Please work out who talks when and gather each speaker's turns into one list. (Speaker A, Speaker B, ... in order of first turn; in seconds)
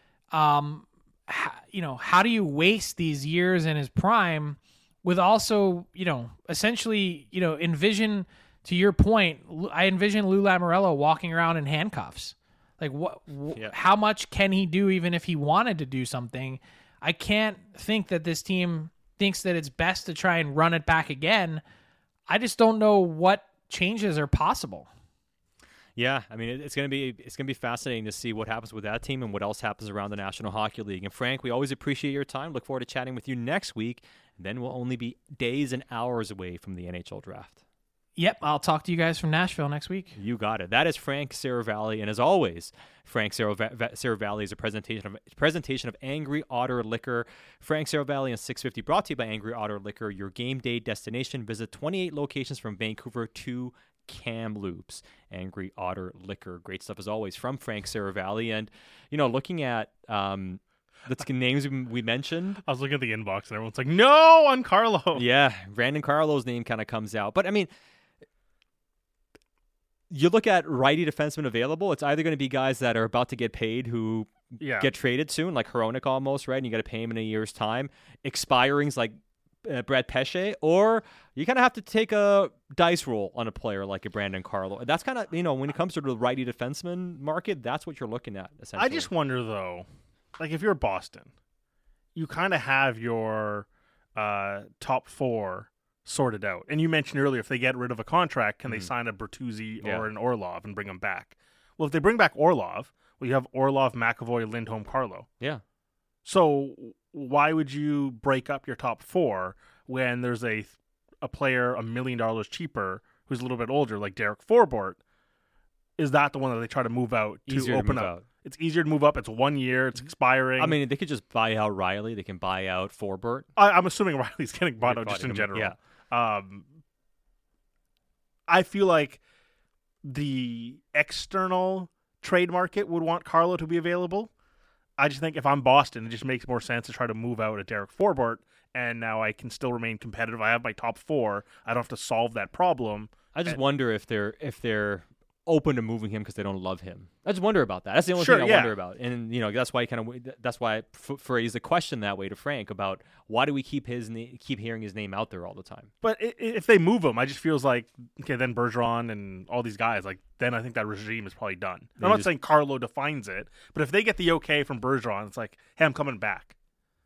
Speaker A: 0.3-21.6, 22.3-24.9, 38.1-40.1
Speaker B: 26.0-37.6, 40.1-62.6, 65.1-67.7, 70.1-89.1, 99.8-100.1, 117.5-118.2, 120.6-123.5, 124.8-125.8, 143.3-155.9, 162.0-162.3
Speaker C: 62.6-65.2, 74.6-74.9, 88.8-89.8, 90.4-91.3, 92.1-105.3, 106.2-115.0, 116.0-120.8, 123.6-126.7, 128.5-129.2, 130.0-134.3, 135.0-143.6, 148.2-148.7, 156.0-166.5